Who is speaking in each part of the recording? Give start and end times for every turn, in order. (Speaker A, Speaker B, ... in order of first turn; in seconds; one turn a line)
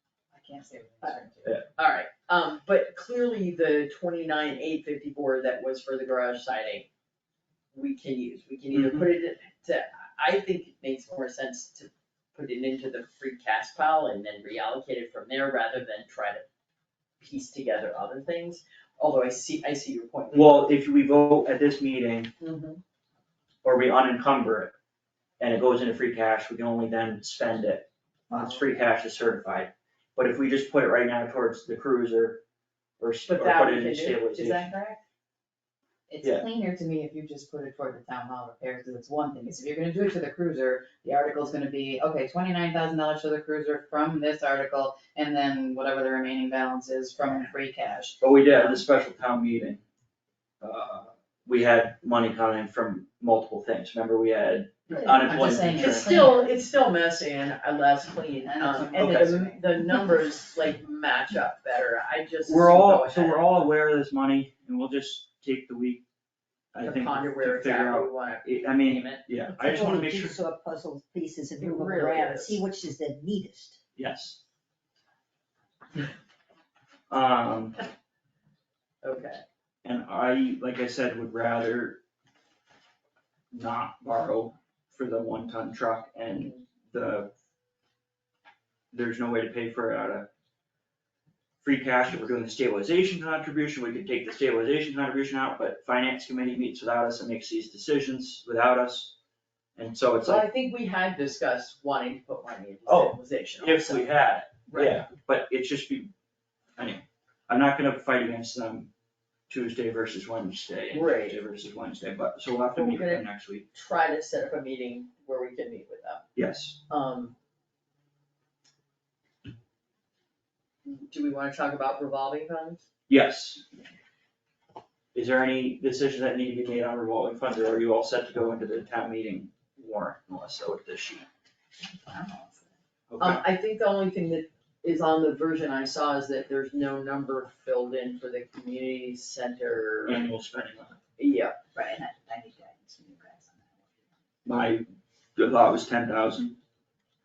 Speaker A: 0.3-1.6
Speaker B: 1.8-6.9
Speaker B: 7.7-16.5
Speaker C: 8.7-9.1
Speaker B: 17.2-20.7
Speaker C: 20.3-22.3
Speaker B: 22.4-22.8
Speaker C: 23.6-24.8
Speaker C: 25.4-32.4
Speaker C: 33.0-34.7
Speaker B: 33.3-35.0
Speaker A: 36.1-48.8
Speaker C: 48.2-49.8
Speaker C: 50.6-56.2
Speaker A: 54.9-56.5
Speaker B: 55.3-63.7
Speaker A: 58.4-59.9
Speaker C: 59.0-59.3
Speaker C: 62.5-66.0
Speaker C: 66.7-70.4
Speaker B: 66.8-69.2
Speaker D: 69.5-73.8
Speaker B: 71.6-72.6
Speaker C: 74.0-74.4
Speaker C: 77.1-77.8
Speaker B: 79.0-79.4
Speaker C: 79.8-82.0
Speaker C: 83.5-87.3
Speaker B: 86.3-86.6
Speaker C: 88.9-90.3
Speaker C: 91.6-99.2
Speaker C: 99.8-100.5
Speaker B: 100.2-104.1
Speaker C: 102.9-106.1
Speaker B: 104.7-105.0
Speaker C: 106.8-108.9
Speaker C: 109.5-113.7
Speaker B: 110.9-111.4
Speaker B: 112.8-116.2
Speaker C: 116.4-116.8
Speaker B: 116.9-117.3
Speaker B: 120.8-122.8
Speaker C: 123.1-123.6
Speaker C: 125.1-131.3
Speaker A: 131.9-132.7
Speaker C: 133.1-133.4
Speaker B: 133.2-140.2
Speaker C: 140.1-141.0
Speaker B: 141.2-141.6
Speaker A: 141.8-143.9
Speaker C: 144.4-146.6